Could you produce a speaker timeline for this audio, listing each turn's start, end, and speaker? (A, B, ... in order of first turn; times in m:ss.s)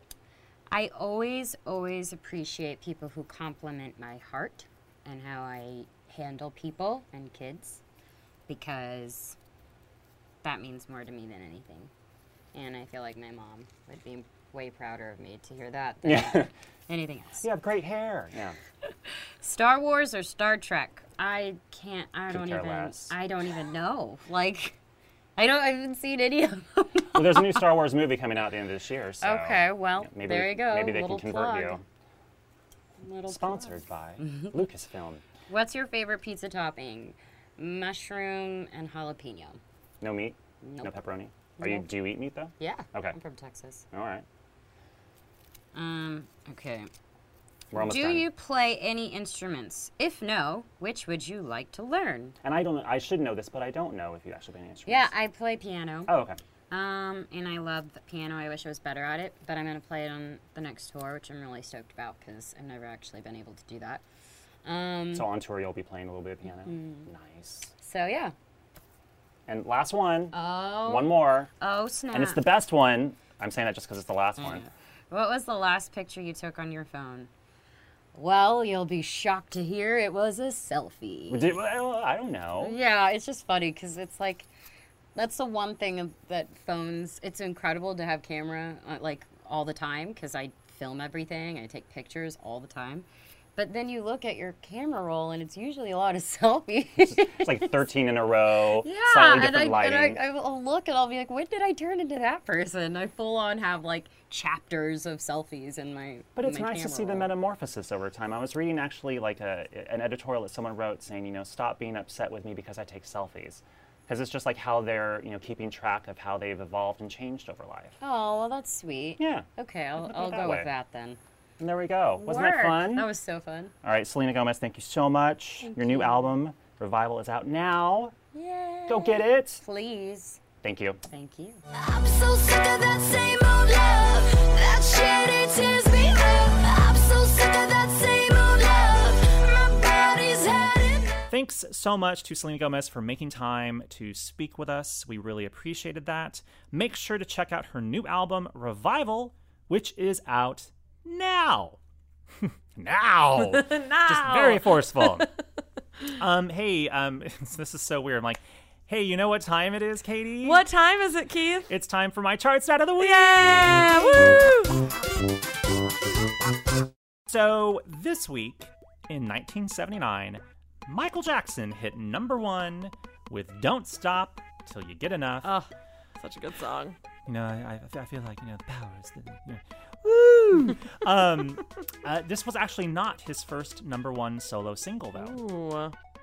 0:00.7-0:07.8 A
0:08.5-0:09.4 A
0:10.4-0:11.9 A
0:12.5-0:17.5 A
0:16.0-0:16.5 B
0:17.4-0:18.6 B
0:19.4-0:24.8 A
0:22.3-0:23.2 B
0:25.4-0:27.7 A
0:27.2-0:31.8 B
0:29.2-0:31.8 A
0:33.0-0:34.6 A
0:33.3-0:35.2 B
0:35.5-0:39.6 A
0:40.0-0:43.2 B
0:40.6-0:41.9 A
0:42.6-0:43.9 A
0:43.9-0:44.2 B
0:45.7-0:46.9 A
0:47.7-0:48.3 B
0:47.7-0:52.4 A
0:52.4-0:55.1 B
0:54.9-1:04.0 A
0:56.1-0:56.4 B
1:04.6-1:05.3 A
1:05.1-1:07.7 B
1:06.5-1:07.1 A
1:07.8-1:08.3 A
1:09.5-1:11.5 B
1:10.3-1:12.5 A
1:12.1-1:14.6 B
1:14.4-1:17.3 A
1:18.2-1:21.5 A
1:21.3-1:22.8 B
1:22.6-1:24.5 A
1:25.2-1:38.0 A
1:37.3-1:40.2 B
1:38.7-1:47.3 A
1:46.4-1:58.0 B
1:58.0-2:01.2 A
1:59.2-1:59.5 B
2:00.0-2:00.7 B
2:01.6-2:03.1 B
2:02.2-2:03.7 A
2:03.8-2:08.1 B
2:05.6-2:06.3 A
2:08.3-2:10.4 A
2:08.9-2:09.6 B
2:10.6-2:11.0 B
2:11.1-2:11.6 A
2:11.7-2:21.2 C
2:21.3-2:31.8 D
2:32.4-2:35.3 D
2:33.4-2:35.3 E
2:36.2-2:40.6 D
2:40.4-2:41.7 E
2:41.7-2:44.5 D
2:43.0-2:44.9 E
2:47.3-2:55.5 D
2:55.4-2:57.0 E
2:57.3-3:05.4 D
3:05.2-3:05.9 E